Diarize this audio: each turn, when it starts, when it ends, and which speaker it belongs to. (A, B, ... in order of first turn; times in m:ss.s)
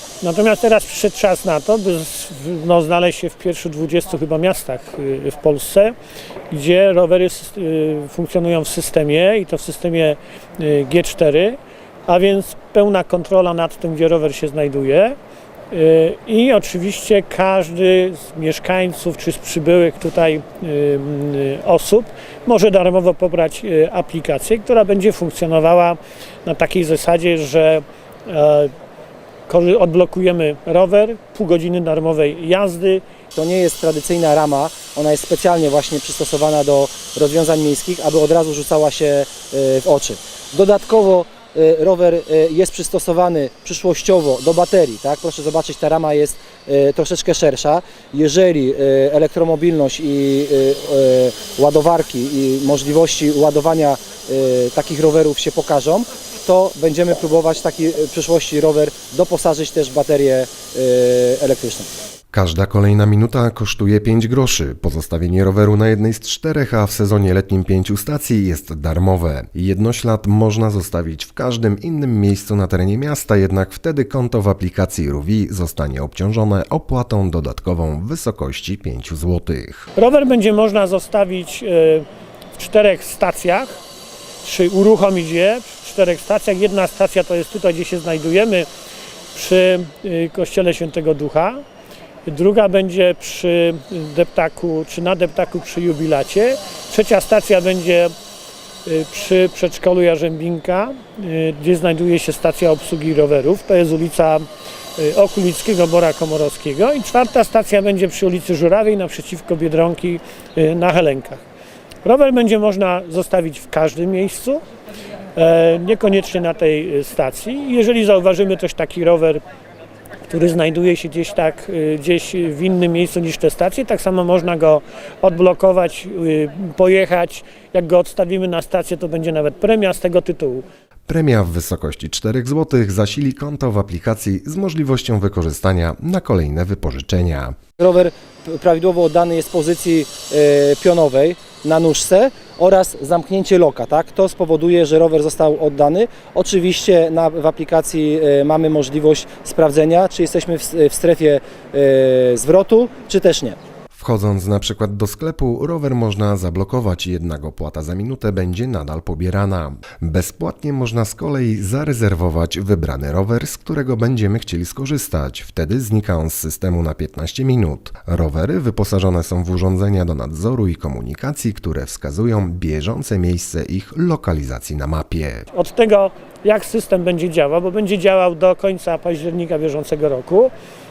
0:00.2-0:05.9 A
0:06.5-0:15.2 A
0:15.7-0:28.7 A
0:29.5-0:33.0 A
0:33.3-1:01.9 B
1:02.3-1:19.9 C
1:20.0-1:23.8 A
1:24.4-1:28.7 A
1:29.3-1:31.6 A
1:32.3-1:38.1 A
1:38.8-1:44.5 A
1:45.0-1:51.4 A
1:52.0-1:54.6 A
1:55.4-1:59.4 A
2:00.3-2:10.6 A
2:11.1-2:17.6 C
2:17.8-2:33.6 B
2:33.9-2:55.5 C
2:55.5-3:00.5 A